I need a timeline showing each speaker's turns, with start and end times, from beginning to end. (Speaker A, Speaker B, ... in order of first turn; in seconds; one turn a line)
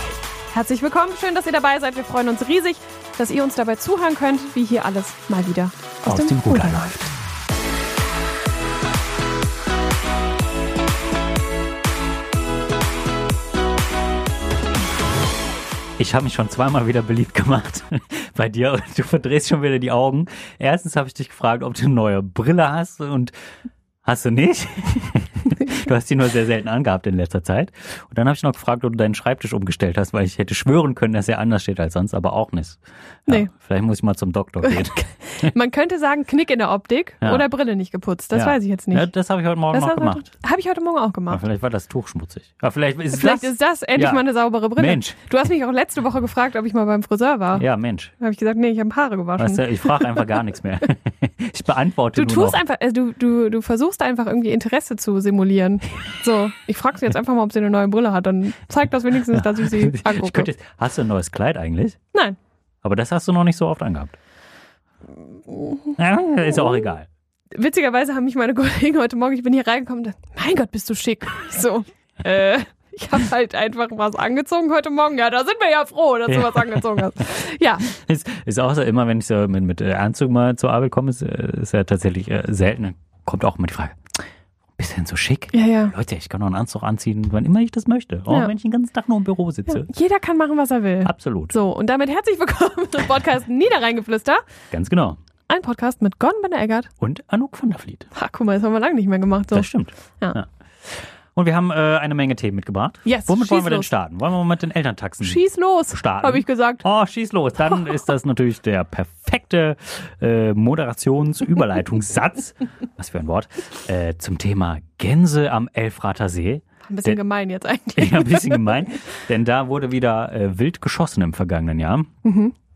Speaker A: 0.5-7.0
Speaker B: 6.0-7.1
Speaker B: 16.0-23.3
Speaker B: 24.0-35.5
Speaker A: 34.7-39.0
Speaker B: 38.3-40.3
Speaker A: 39.7-41.4
Speaker B: 41.3-44.2
Speaker A: 43.1-47.6
Speaker B: 44.8-45.2
Speaker B: 47.5-48.1
Speaker A: 48.2-50.3
Speaker B: 49.4-52.6
Speaker A: 52.1-60.5
Speaker B: 59.3-62.0
Speaker B: 62.8-64.2
Speaker A: 65.5-66.0
Speaker B: 66.0-67.1
Speaker A: 67.5-77.9
Speaker B: 76.3-77.2
Speaker B: 77.8-84.0
Speaker B: 84.8-89.9
Speaker A: 85.5-85.9
Speaker A: 89.7-94.4
Speaker B: 91.0-91.5
Speaker B: 94.7-95.2
Speaker A: 95.5-96.9
Speaker B: 97.0-98.1
Speaker A: 98.1-99.7
Speaker B: 99.5-117.2
Speaker A: 103.0-103.9
Speaker A: 105.2-106.8
Speaker A: 116.9-118.7
Speaker B: 118.0-122.1
Speaker A: 122.2-122.5